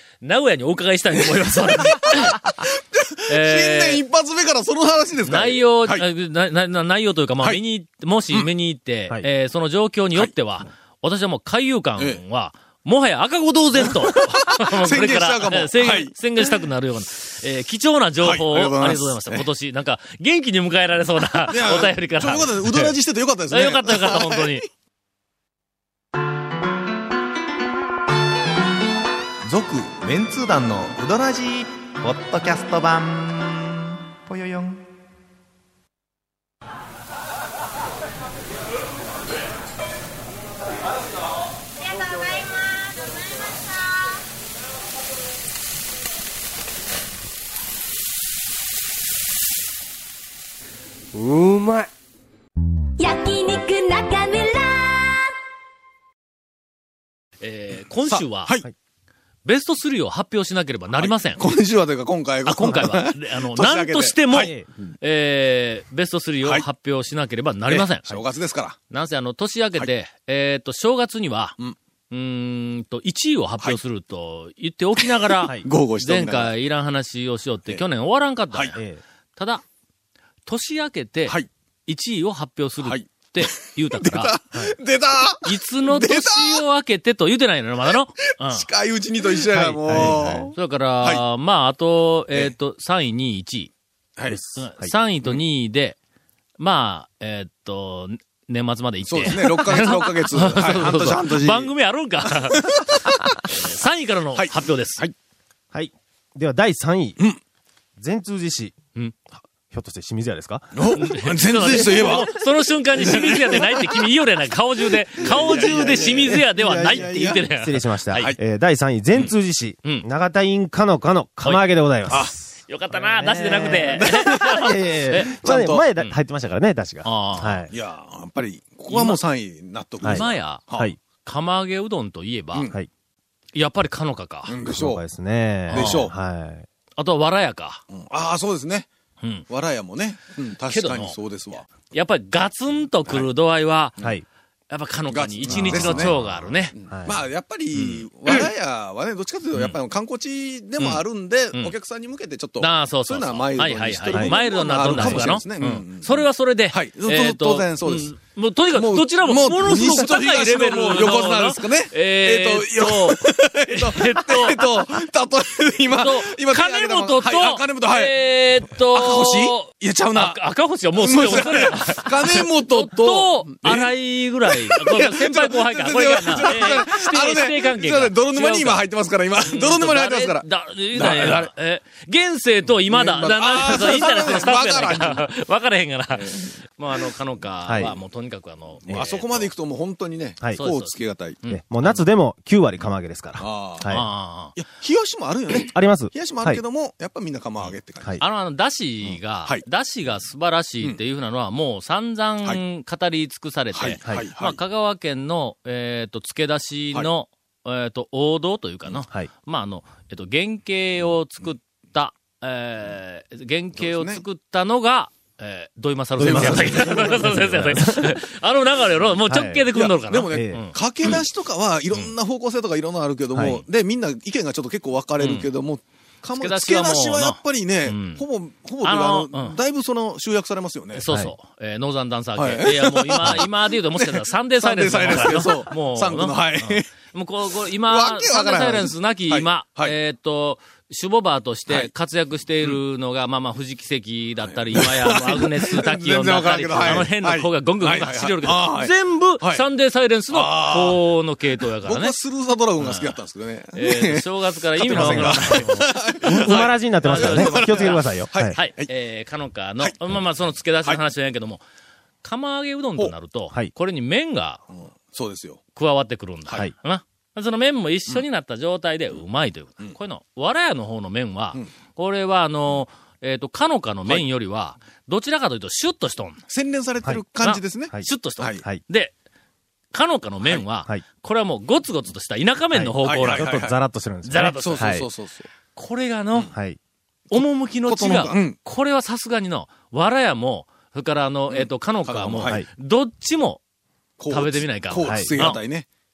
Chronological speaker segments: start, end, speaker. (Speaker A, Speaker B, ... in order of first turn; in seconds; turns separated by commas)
Speaker A: 0.2-2.4, Speaker B: 1.8-6.0, Speaker A: 3.3-4.0, Speaker A: 5.3-22.9, Speaker B: 13.9-16.4, Speaker B: 18.2-19.4, Speaker B: 21.5-24.6, Speaker A: 23.5-24.7, Speaker C: 29.4-34.8, Speaker D: 42.0-42.5, Speaker D: 53.0-55.2, Speaker A: 57.4-58.5, Speaker B: 58.0-58.7, Speaker A: 59.4-61.4, Speaker B: 60.9-64.9, Speaker A: 62.4-68.2, Speaker B: 67.7-68.8, Speaker A: 68.9-71.6, Speaker A: 72.1-78.8, Speaker B: 75.0-76.5, Speaker E: 78.8-79.0, Speaker A: 79.3-79.6, Speaker A: 80.5-84.3, Speaker B: 82.8-86.6, Speaker A: 85.4-88.7, Speaker B: 88.5-91.2, Speaker E: 89.5-90.5, Speaker A: 89.9-93.7, Speaker E: 94.3-94.9, Speaker A: 94.6-96.0, Speaker A: 96.6-102.9, Speaker B: 99.1-101.7, Speaker B: 102.3-103.4, Speaker A: 103.4-105.0, Speaker B: 104.4-105.1, Speaker E: 105.7-107.2, Speaker E: 108.0-108.8, Speaker E: 109.7-111.0, Speaker B: 110.7-112.3, Speaker A: 110.9-118.3, Speaker E: 111.8-112.2, Speaker B: 113.0-113.8, Speaker B: 115.2-117.4, Speaker E: 116.9-122.3, Speaker B: 122.1-122.3, Speaker A: 122.7-125.3, Speaker E: 122.9-127.7, Speaker B: 123.9-124.5, Speaker B: 125.3-125.8, Speaker A: 127.0-127.7, Speaker B: 127.7-130.9, Speaker A: 128.9-129.2, Speaker E: 130.0-131.0, Speaker A: 130.0-130.6, Speaker A: 131.2-132.7, Speaker A: 133.5-134.5, Speaker B: 134.5-135.0, Speaker E: 134.7-136.7, Speaker A: 135.7-136.0, Speaker B: 135.7-136.1, Speaker A: 137.0-137.8, Speaker B: 137.9-138.9, Speaker B: 139.5-141.7, Speaker A: 140.7-141.2, Speaker A: 141.8-143.9, Speaker E: 144.0-144.2, Speaker A: 144.7-146.7, Speaker B: 145.1-158.1, Speaker E: 145.5-146.2, Speaker E: 146.9-147.2, Speaker A: 147.7-148.5, Speaker A: 152.6-164.8, Speaker E: 154.9-155.3, Speaker B: 158.7-170.4, Speaker A: 165.9-178.8, Speaker B: 171.0-173.9, Speaker B: 174.5-181.5, Speaker A: 179.4-189.5, Speaker B: 182.9-185.3, Speaker B: 186.2-186.5, Speaker E: 187.7-187.9, Speaker B: 188.9-191.4, Speaker A: 190.6-192.0, Speaker E: 191.5-194.0, Speaker B: 193.4-194.0, Speaker A: 193.8-194.6, Speaker B: 194.6-198.2, Speaker E: 195.6-196.6, Speaker A: 197.6-221.2, Speaker B: 203.7-204.6, Speaker B: 213.8-214.2, Speaker B: 216.2-217.4, Speaker E: 216.2-218.2, Speaker E: 219.3-219.7, Speaker B: 219.7-231.0, Speaker E: 220.3-220.6, Speaker E: 223.3-223.6, Speaker A: 225.2-225.5, Speaker A: 226.4-228.2, Speaker A: 228.8-229.6, Speaker A: 230.9-252.1, Speaker B: 232.4-236.9, Speaker B: 237.7-239.9, Speaker B: 244.5-249.6, Speaker B: 250.3-251.0, Speaker B: 251.6-258.9, Speaker A: 252.8-253.2, Speaker A: 253.7-261.6, Speaker E: 254.9-258.6, Speaker A: 262.2-264.6, Speaker B: 265.0-265.6, Speaker A: 265.8-276.4, Speaker B: 276.5-278.6, Speaker A: 277.4-279.1, Speaker A: 279.9-283.6, Speaker E: 282.7-285.1, Speaker B: 283.0-283.8, Speaker A: 284.2-285.0, Speaker B: 284.5-285.5, Speaker A: 285.7-286.5, Speaker E: 286.5-286.8, Speaker A: 287.3-293.6, Speaker B: 287.9-288.6, Speaker B: 291.5-292.6, Speaker B: 294.2-295.9, Speaker A: 294.3-295.6, Speaker E: 295.0-295.3